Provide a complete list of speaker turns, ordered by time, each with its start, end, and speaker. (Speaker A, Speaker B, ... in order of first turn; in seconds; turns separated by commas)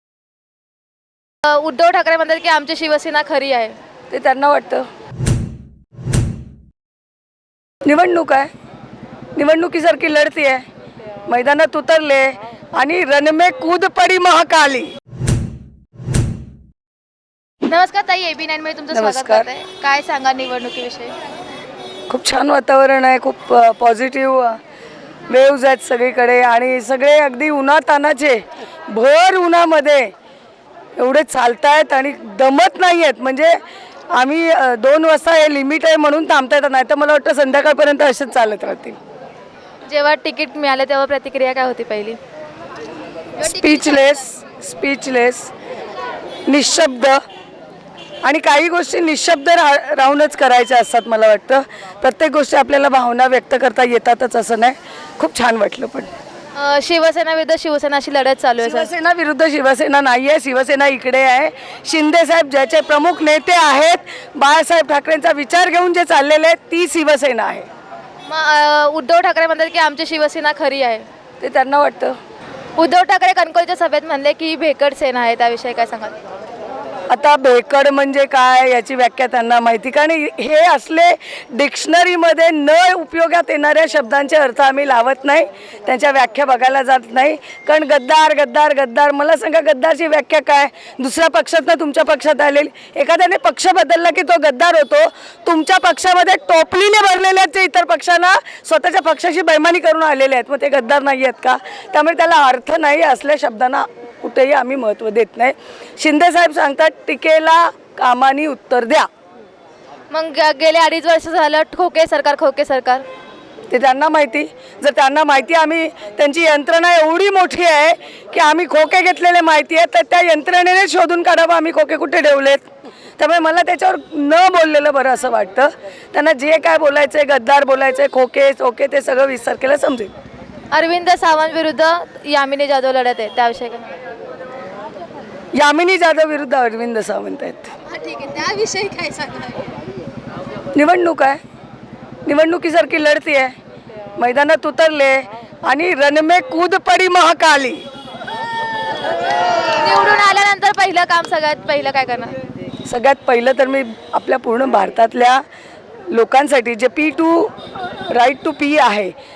Speaker A: 1.4-3.8, Speaker B: 4.1-4.9, Speaker B: 7.8-8.5, Speaker B: 9.3-10.6, Speaker B: 11.3-14.9, Speaker A: 17.6-21.1, Speaker B: 18.9-19.5, Speaker B: 22.1-24.6, Speaker B: 25.3-30.1, Speaker B: 31.0-33.6, Speaker B: 34.1-39.0, Speaker A: 39.9-42.2, Speaker A: 43.4-44.2, Speaker B: 43.4-45.5, Speaker B: 46.5-47.2, Speaker B: 48.2-56.1, Speaker A: 56.5-58.9, Speaker B: 58.6-67.7, Speaker A: 68.2-71.0, Speaker B: 71.4-72.2, Speaker A: 72.8-76.2, Speaker B: 77.1-109.1, Speaker A: 110.1-113.0, Speaker B: 113.7-122.6, Speaker B: 123.2-130.1, Speaker A: 130.7-133.9, Speaker B: 135.5-137.7, Speaker A: 137.8-139.7, Speaker B: 140.7-141.4, Speaker B: 142.2-143.5, Speaker B: 144.2-147.8, Speaker A: 149.8-152.3, Speaker B: 152.8-155.4, Speaker B: 156.1-159.1